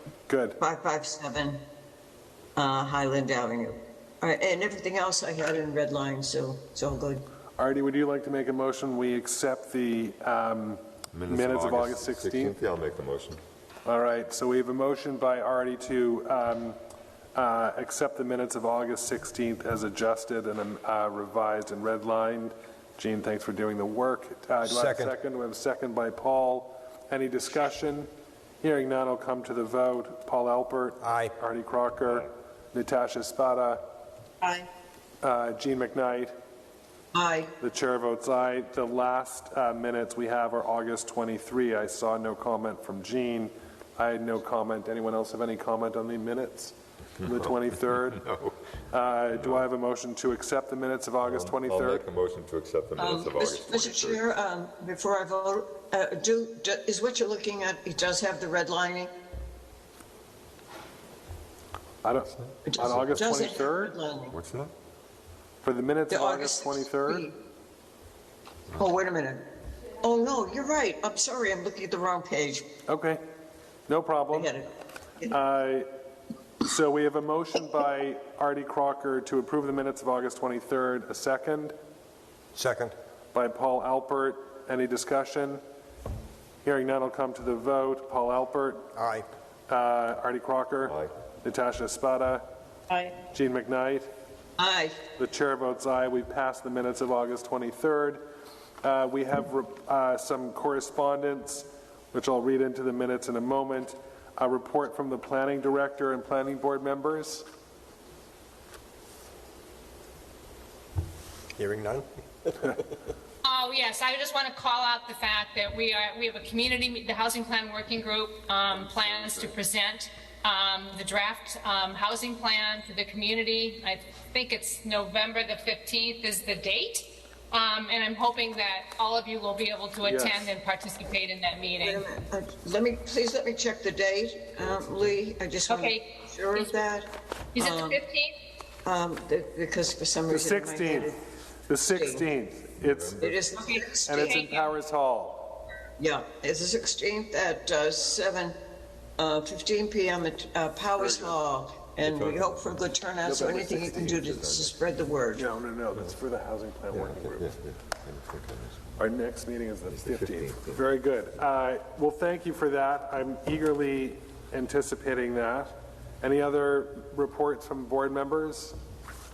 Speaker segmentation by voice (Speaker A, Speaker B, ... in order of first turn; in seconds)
Speaker A: 0.3-0.6, 7.6-12.6, 13.8-16.8, 17.3-28.1, 28.6-33.8, 35.2-36.3, 37.6-48.2, 48.9-52.1, 62.0-63.9, 65.6-67.3, 72.9-73.2, 73.9-74.6, 75.2-75.9, 76.6-81.7, 83.3-85.6, 86.6-88.8, 89.7-92.4, 93.3-94.1, 95.2-98.2, 98.8-107.4, 118.7-119.6, 130.0-130.5, 140.3-141.1, 141.7-143.2, 144.0-145.4, 151.0-151.4, 153.2-154.2, 155.4-157.6, 159.0-168.8
Speaker B: 0.6-1.6, 2.5-7.2, 37.1-37.5, 53.0-59.1, 62.6-64.4, 66.1-67.3, 68.7-69.4, 70.0-72.7, 74.3-74.7, 94.6-95.0, 131.8-138.0, 138.8-141.2, 141.9-142.2, 143.2-144.7, 146.0-148.6, 149.2-155.5
Speaker C: 11.1-13.4, 47.2-48.6, 49.3-49.6, 51.2-54.2, 62.8-63.1, 64.3-64.7, 90.8-91.1, 142.8-143.4, 152.0-152.9, 153.8-154.8, 156.9-159.0, 159.9-160.8
Speaker D: 24.6-25.1, 31.0-31.3, 82.5-82.9, 88.9-89.2, 111.5-112.7
Speaker E: 113.4-132.0, 135.7-136.0, 137.5-138.3